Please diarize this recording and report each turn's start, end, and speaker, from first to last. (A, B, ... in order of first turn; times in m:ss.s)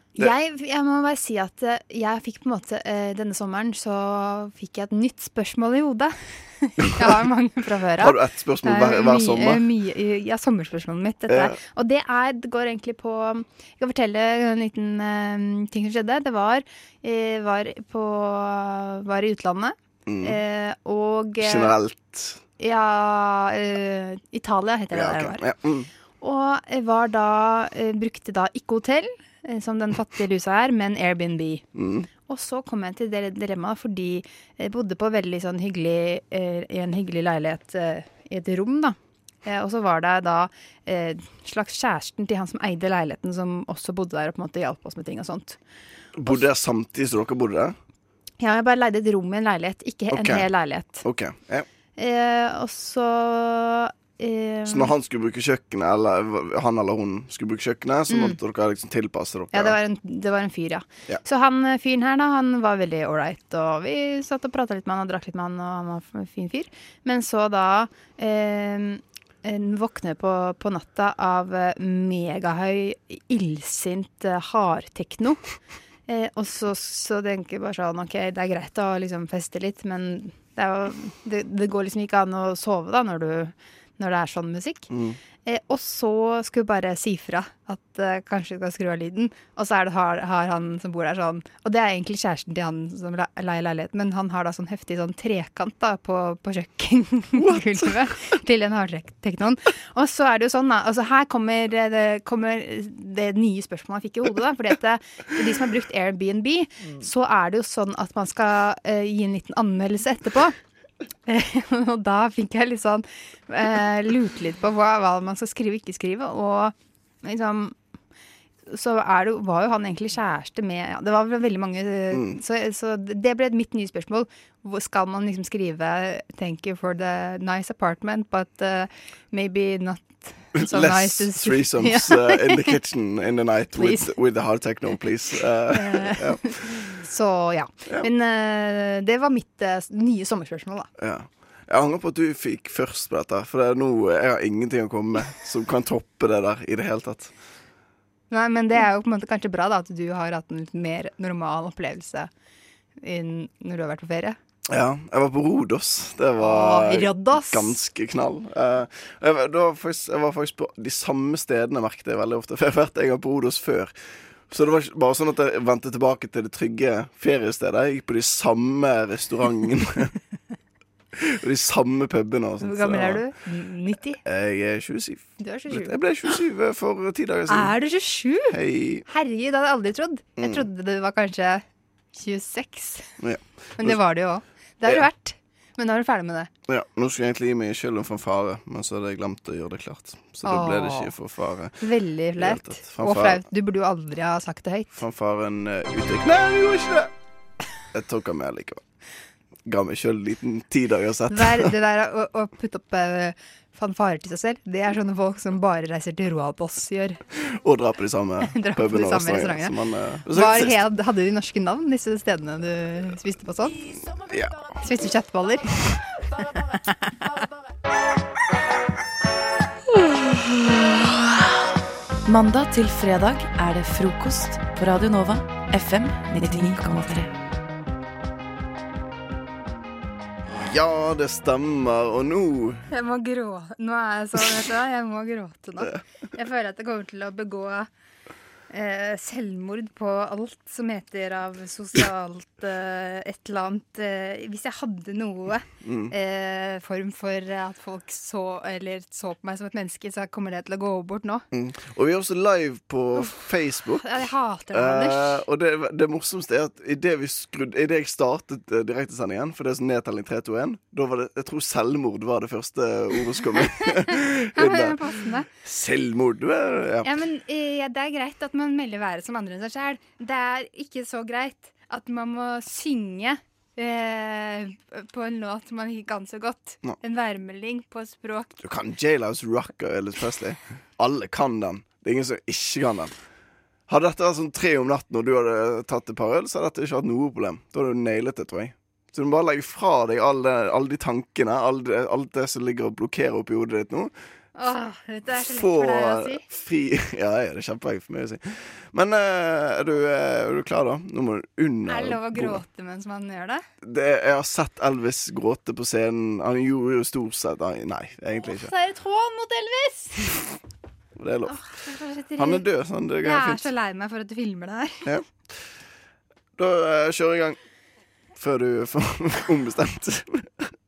0:00.1-0:21.7 A
0:06.8-0:07.1 B
0:08.0-0:09.7 B
0:11.3-0:11.6 B
0:20.0-0:20.4 B
0:21.4-0:22.4 B
0:22.6-0:25.4 A
0:24.9-0:25.9 B
0:26.2-0:45.6 A
0:31.7-0:32.1 B
0:46.2-0:47.8 B
0:48.4-0:51.0 A
0:50.1-0:50.5 B
0:51.0-0:51.7 B
0:52.0-0:54.9 A
0:54.7-0:59.8 B
0:58.1-0:58.4 A
0:59.5-1:15.4 A
1:16.1-1:50.5 A
1:24.9-1:25.2 B
1:37.3-1:38.4 B
1:51.3-1:57.8 A
1:58.7-2:12.7 A
2:02.1-2:02.4 B
2:10.5-2:16.9 B
2:13.7-2:14.2 A
2:15.7-2:20.9 A
2:21.0-2:27.3 B
2:28.3-2:32.3 A
2:33.0-2:34.4 A
2:34.7-2:43.9 B
2:36.4-2:37.8 A
2:44.5-2:50.1 B
2:51.2-2:53.3 B
2:52.6-2:54.2 A
2:54.2-2:57.8 B
2:55.4-2:56.3 A
2:57.5-3:01.6 A
2:58.5-2:59.0 B
3:00.4-3:00.6 B
3:02.1-3:03.1 A
3:03.2-3:04.0 B
3:03.8-3:06.5 A
3:06.7-3:11.8 B
3:10.4-3:11.2 A
3:11.8-3:15.0 A
3:12.4-3:13.5 B
3:14.9-3:17.1 B
3:17.9-3:18.8 B
3:19.6-3:21.7 B
3:21.3-3:27.2 A
3:27.4-3:30.8 B
3:28.4-3:33.8 A
3:34.1-3:34.8 B
3:34.7-3:35.8 A
3:36.7-3:37.0 A
3:40.1-3:41.2 C
3:42.2-3:47.3 C
3:50.5-3:52.8 B
3:52.9-3:57.9 A
3:58.7-4:11.4 A
4:05.8-4:06.1 B
4:11.5-4:27.2 B
4:14.0-4:15.4 A
4:24.5-4:25.5 A
4:27.0-4:38.5 A
4:38.6-4:43.1 B
4:43.9-4:54.1 B
4:54.6-4:56.4 A
4:55.3-5:02.6 B
5:01.8-5:03.6 A
5:03.8-5:08.7 B
5:08.4-5:10.4 A
5:11.2-5:11.7 B
5:11.4-5:12.6 A
5:12.3-5:13.7 B
5:13.2-5:15.1 A
5:16.6-5:17.6 B
5:18.4-5:20.7 B